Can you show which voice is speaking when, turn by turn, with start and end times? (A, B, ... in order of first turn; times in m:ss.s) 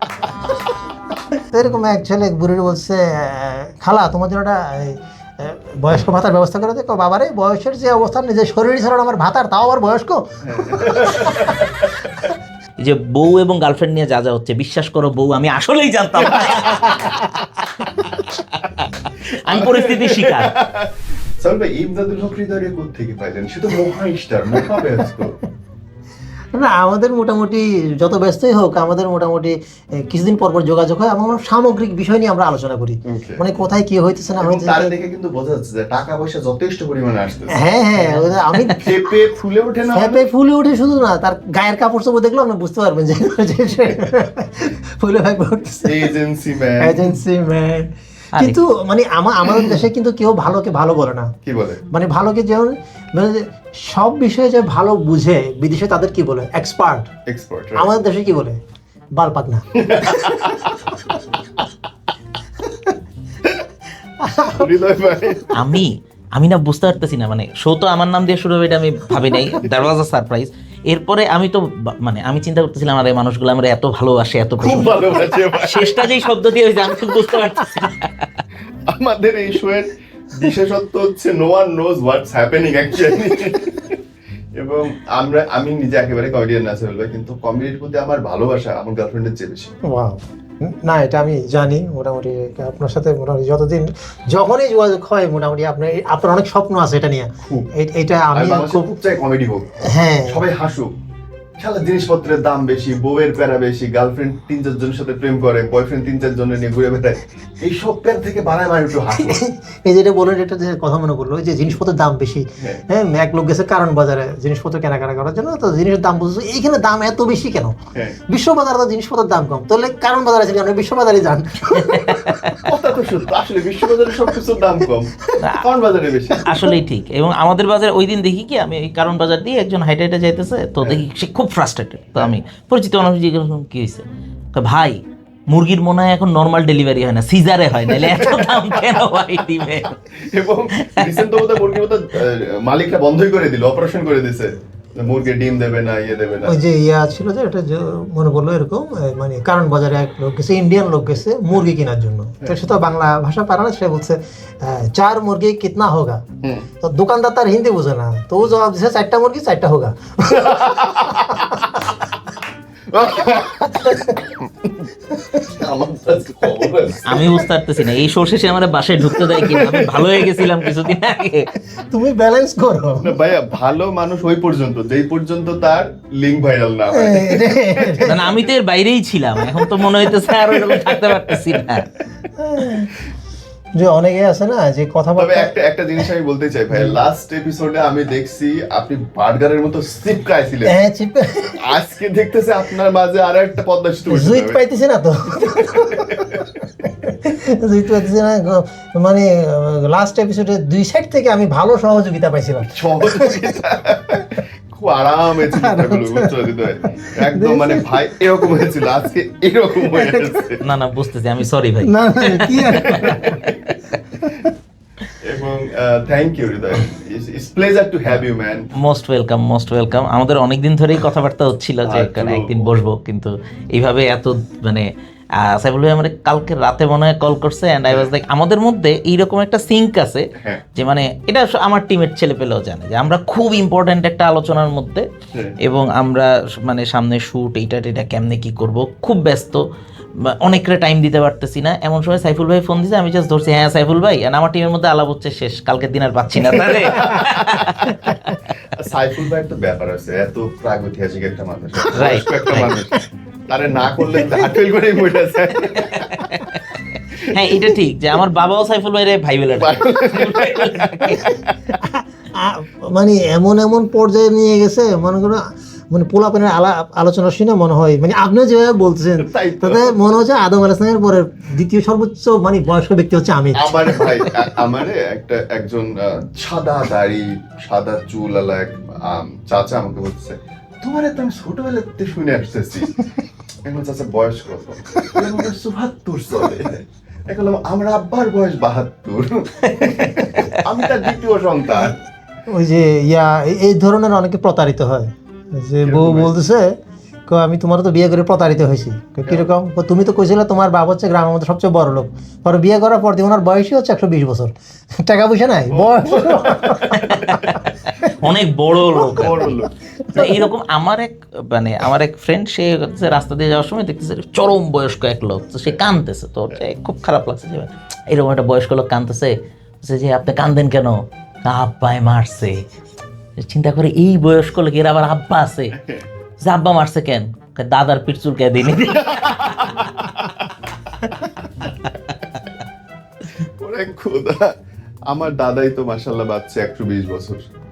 0:01.4-0:11.5 A
0:10.4-0:12.3 B
0:12.8-0:18.6 C
0:16.2-0:17.2 B
0:19.2-0:20.5 C
0:19.5-0:25.4 B
0:26.5-0:34.9 A
0:33.1-0:33.4 B
0:34.4-0:37.6 B
0:37.6-0:38.8 A
0:38.0-0:38.8 C
0:38.7-0:40.3 B
0:39.9-0:46.1 A
0:45.8-0:47.2 B
0:46.8-0:51.3 A
0:51.4-0:51.8 B
0:51.9-0:57.1 A
0:57.3-0:57.9 B
0:57.8-0:58.6 A
0:59.2-1:01.2 A
0:59.8-1:00.8 B
1:04.2-1:04.7 A
1:04.6-1:05.5 B
1:05.5-1:18.3 C
1:14.6-1:16.1 B
1:18.9-1:24.0 B
1:24.6-1:29.7 B
1:29.8-1:38.9 A
1:38.3-1:40.9 B
1:39.9-1:40.4 A
1:41.6-1:49.4 B
1:49.1-1:57.8 A
1:58.3-2:02.6 A
2:01.9-2:02.6 C
2:02.6-2:06.5 B
2:05.4-2:05.7 C
2:06.4-2:15.0 C
2:15.5-2:20.1 C
2:17.9-2:19.0 B
2:20.1-2:26.6 B
2:20.8-2:21.6 C
2:26.5-2:36.2 A
2:36.8-2:41.6 A
2:40.3-2:41.7 B
2:42.9-2:44.5 B
2:43.3-2:44.2 A
2:45.4-2:47.5 B
2:47.1-2:51.5 C
2:49.1-2:50.8 B
2:51.9-2:53.2 A
2:53.0-2:58.4 B
2:56.9-2:58.2 A
2:58.1-3:01.9 C
2:59.6-3:01.6 B
3:02.4-3:02.9 A
3:03.8-3:05.5 A
3:05.2-3:10.8 B
3:10.7-3:11.6 A
3:11.6-3:14.6 B
3:14.1-3:16.3 A
3:15.5-3:16.5 B
3:17.1-3:23.3 A
3:22.7-3:30.6 B
3:25.6-3:26.3 A
3:27.0-3:28.0 A
3:29.8-3:30.4 A
3:30.6-3:33.2 C
3:31.8-3:33.4 A
3:32.8-3:33.8 B
3:34.2-3:34.5 A
3:35.2-3:38.7 B
3:38.8-3:44.9 C
3:41.8-3:42.8 B
3:45.4-3:55.1 C
3:55.6-3:59.6 C
4:00.3-4:08.4 C
4:06.4-4:08.1 B
4:08.8-4:16.2 B
4:11.9-4:12.8 C
4:15.7-4:16.6 C
4:17.2-4:21.4 C
4:19.5-4:21.1 B
4:21.1-4:34.3 A
4:29.2-4:30.0 B
4:33.6-4:43.0 B
4:43.7-4:52.0 B
4:49.8-4:50.6 C
4:52.5-4:56.8 A
4:55.8-4:56.4 B
4:57.3-5:08.1 A
5:05.7-5:07.7 B
5:08.1-5:09.5 C
5:09.1-5:10.4 B
5:10.0-5:10.5 A
5:10.2-5:22.6 C
5:23.4-5:25.8 C
5:26.4-5:29.8 C
5:28.9-5:30.5 B
5:33.4-5:34.5 B
5:35.1-5:37.5 B